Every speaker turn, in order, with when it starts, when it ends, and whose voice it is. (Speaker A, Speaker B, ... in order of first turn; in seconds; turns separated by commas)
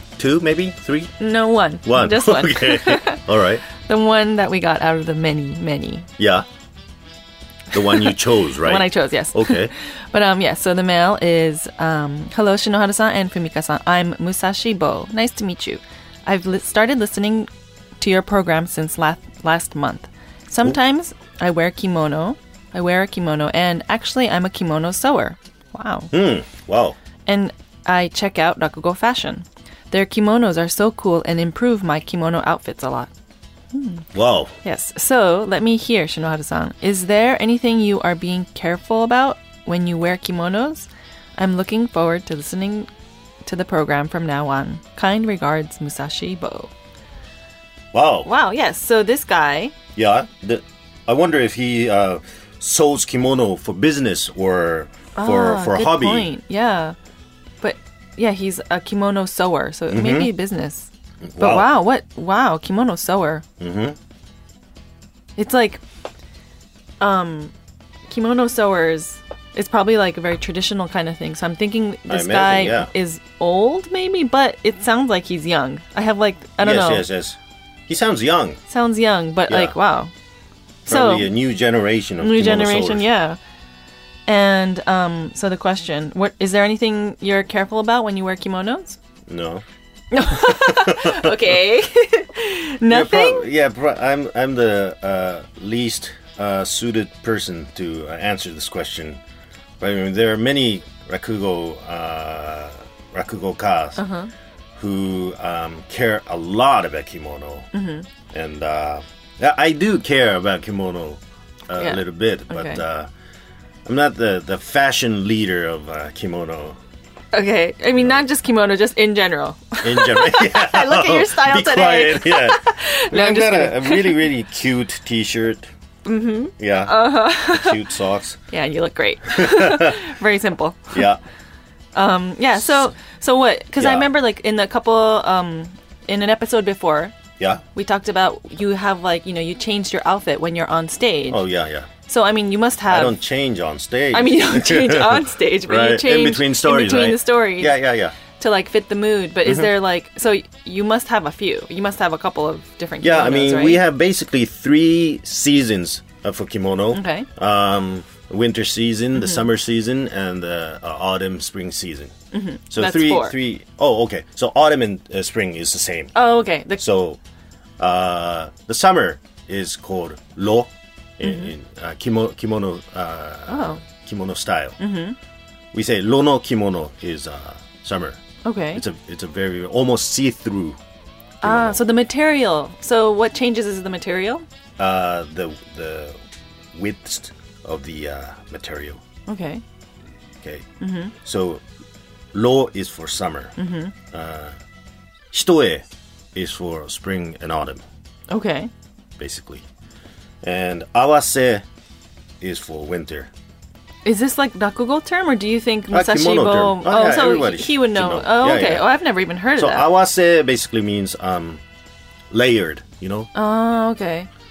Speaker A: 0.2-1.1, Speaker B: 1.2-6.1, Speaker A: 1.9-3.6, Speaker A: 6.2-6.5, Speaker A: 7.7-9.7, Speaker B: 7.7-17.5, Speaker B: 18.0-26.1, Speaker A: 26.1-27.0, Speaker B: 27.3-33.1, Speaker B: 33.7-34.1, Speaker A: 34.1-34.5, Speaker B: 34.6-42.9, Speaker B: 43.5-46.7, Speaker A: 47.9-48.3, Speaker B: 48.2-49.8, Speaker A: 50.0-56.3, Speaker B: 55.2-57.0, Speaker B: 57.6-63.5, Speaker A: 59.9-60.3, Speaker A: 61.2-61.7, Speaker A: 63.6-64.0, Speaker B: 65.4-65.8, Speaker B: 67.0-67.5, Speaker B: 68.1-77.0, Speaker A: 72.1-72.9, Speaker A: 76.6-78.6, Speaker B: 78.7-80.1, Speaker A: 79.5-79.8, Speaker B: 80.9-81.3, Speaker A: 80.9-83.1, Speaker B: 82.2-83.4, Speaker B: 84.3-89.0, Speaker A: 89.3-89.7, Speaker B: 90.1-93.5, Speaker A: 90.3-91.4, Speaker A: 92.9-99.2, Speaker A: 99.8-104.0, Speaker B: 104.0-104.3, Speaker A: 104.8-107.7, Speaker B: 107.7-108.1, Speaker A: 108.3-113.1, Speaker B: 111.8-112.8, Speaker A: 113.8-116.8, Speaker B: 117.3-124.2, Speaker A: 119.8-125.7, Speaker B: 126.0-127.8, Speaker A: 126.6-128.4, Speaker B: 128.5-131.0, Speaker A: 129.3-130.0, Speaker A: 130.9-131.2, Speaker B: 131.9-137.2, Speaker A: 133.8-134.1, Speaker B: 137.8-141.4, Speaker A: 141.3-141.9, Speaker B: 142.1-143.2, Speaker A: 142.9-148.2, Speaker B: 144.1-147.8, Speaker B: 148.4-153.8, Speaker A: 149.4-149.7, Speaker A: 153.0-162.1, Speaker B: 156.9-157.3, Speaker B: 159.2-159.4, Speaker B: 162.3-163.4, Speaker A: 162.7-166.1, Speaker B: 166.2-166.8, Speaker A: 166.8-167.2, Speaker A: 167.8-174.8, Speaker B: 171.2-171.5, Speaker B: 173.5-173.8, Speaker B: 174.8-175.2, Speaker A: 175.7-178.2, Speaker B: 178.4-178.8, Speaker A: 178.7-180.8, Speaker A: 181.4-181.8, Speaker B: 181.4-184.4, Speaker A: 184.8-186.2, Speaker A: 186.7-189.0, Speaker B: 189.3-189.6, Speaker A: 190.4-190.7, Speaker B: 190.8-191.1, Speaker A: 191.2-191.6, Speaker A: 192.3-193.5, Speaker B: 193.6-193.9, Speaker A: 194.1-194.6, Speaker A: 195.3-197.8, Speaker B: 198.3-198.7, Speaker A: 199.2-199.7, Speaker A: 200.4-201.7, Speaker A: 202.4-203.3, Speaker B: 204.1-209.9, Speaker A: 205.9-208.9, Speaker A: 209.6-211.6, Speaker A: 212.3-213.3, Speaker B: 213.3-214.3